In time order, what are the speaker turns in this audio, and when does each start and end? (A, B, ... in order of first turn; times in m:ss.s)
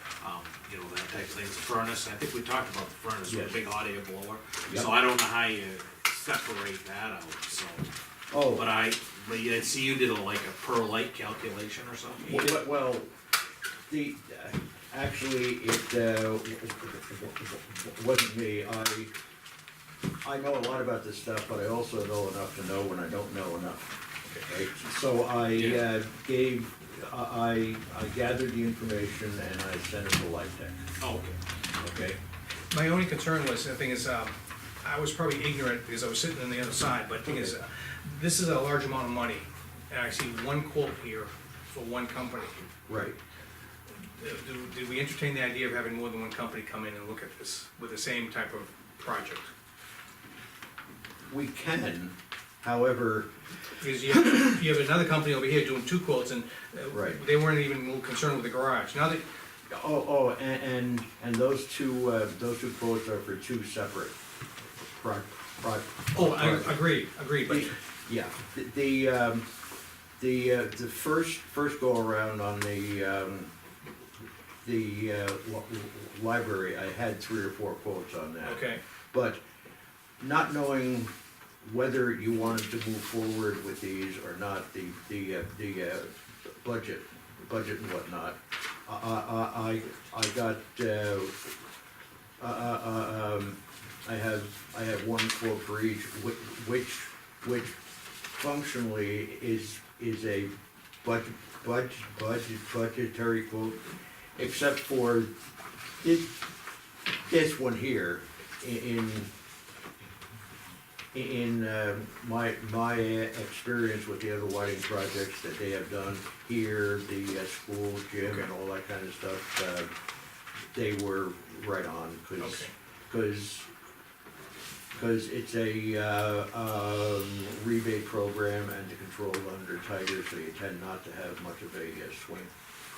0:00.2-0:07.9 A
0:03.3-0:03.6 B
0:08.3-0:08.7 B
0:08.6-0:12.3 A
0:12.2-0:13.1 B
0:13.9-0:19.1 B
0:20.2-0:30.9 B
0:31.0-0:31.4 A
0:31.8-0:32.2 B
0:32.7-0:42.6 C
0:37.2-0:37.5 B
0:42.9-0:43.2 B
0:43.9-0:49.5 C
0:51.3-0:53.3 B
0:53.8-0:59.2 C
0:56.9-0:57.2 B
0:59.7-1:04.2 B
1:04.9-1:06.9 B
1:06.1-1:07.7 C
1:07.4-1:09.5 B
1:10.2-1:13.5 B
1:14.6-1:19.4 B
1:18.4-1:18.8 C
1:20.2-1:31.5 B
1:32.4-1:37.8 B
1:38.4-1:43.8 B
1:44.4-1:45.3 B
1:46.0-1:46.4 B
1:47.3-1:49.3 B
1:51.1-1:59.9 B
2:00.7-2:03.7 B
2:02.4-2:02.7 C
2:04.9-2:12.5 B